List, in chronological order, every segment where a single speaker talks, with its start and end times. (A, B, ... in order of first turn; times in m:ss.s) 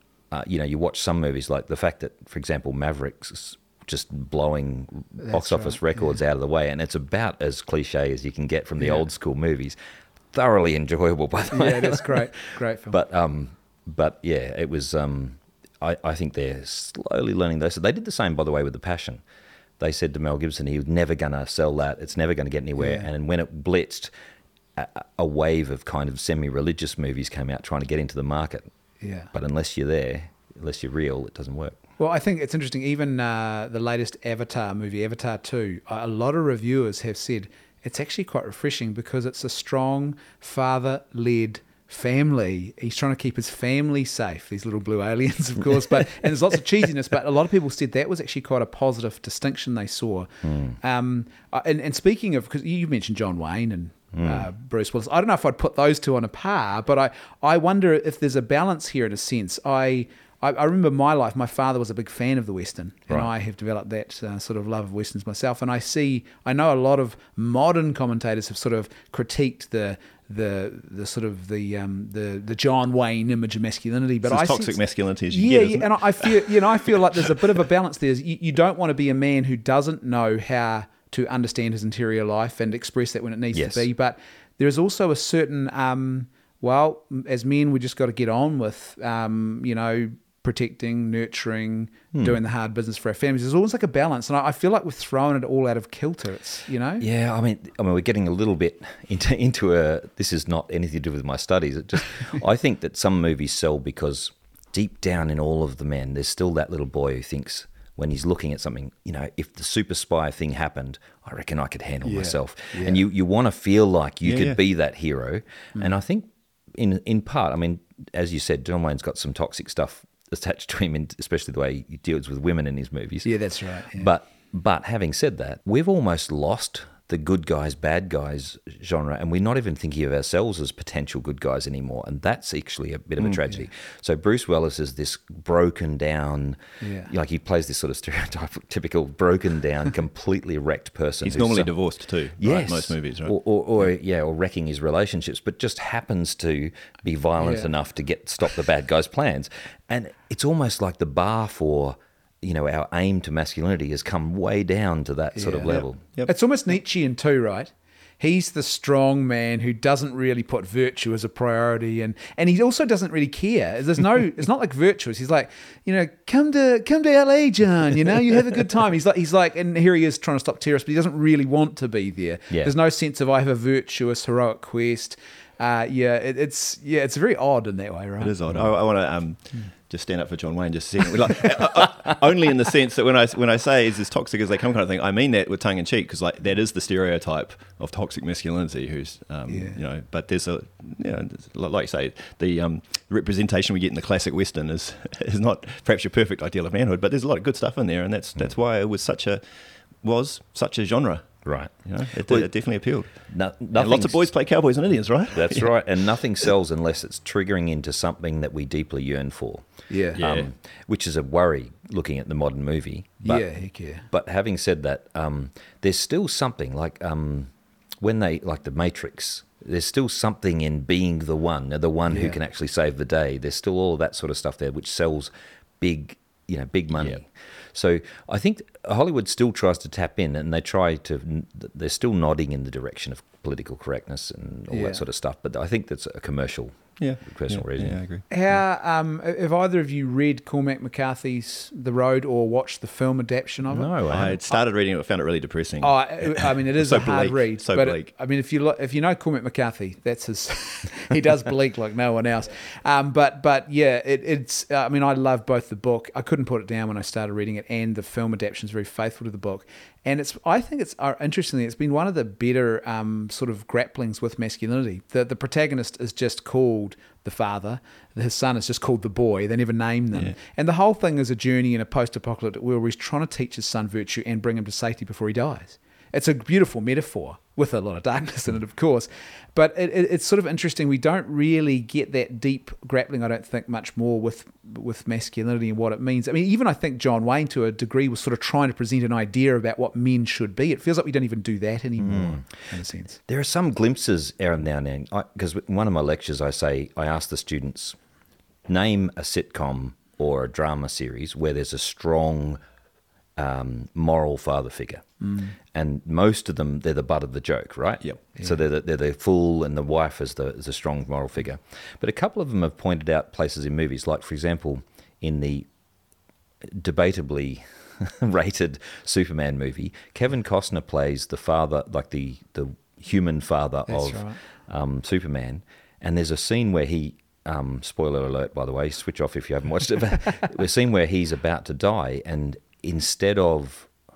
0:00.3-0:09.8 A
0:05.2-0:05.8 B
0:10.3-0:19.2 A
0:11.5-0:13.0 B
0:19.8-0:24.1 A
0:22.8-0:23.1 B
0:24.8-0:28.7 A
0:29.0-0:29.3 B
0:29.3-0:31.8 A
0:32.0-1:37.1 B
0:50.4-0:50.8 A
0:54.1-0:54.5 A
1:14.3-1:16.7 C
1:23.5-1:23.9 A
1:32.1-1:32.4 A
1:37.0-2:21.7 A
1:52.0-1:53.0 B
1:54.2-1:54.6 C
2:03.2-2:04.1 B
2:16.8-2:17.1 B
2:21.2-2:23.4 C
2:22.4-2:36.0 A
2:27.4-2:27.7 B
2:35.3-2:58.7 B
2:52.5-2:52.8 A
2:58.2-3:23.2 C
3:09.5-3:09.8 B
3:21.4-3:22.5 A
3:23.2-3:24.2 A
3:23.7-3:25.7 C
3:25.3-3:33.5 A
3:29.9-3:30.2 B
3:30.2-3:30.5 C
3:33.2-3:34.1 B
3:34.1-3:58.0 A
3:42.1-3:42.4 B
3:54.7-3:55.0 B
3:57.0-3:58.3 C
3:58.3-4:03.9 B
4:03.7-4:04.4 A
4:04.1-4:08.1 C
4:05.8-4:53.2 B
4:52.0-4:52.5 A
4:53.3-4:58.0 A
4:58.7-5:02.6 A
5:03.4-5:05.1 A
5:05.2-5:05.6 B
5:05.7-5:15.7 A
5:08.4-5:08.6 B
5:16.6-5:33.9 A
5:23.9-5:24.4 B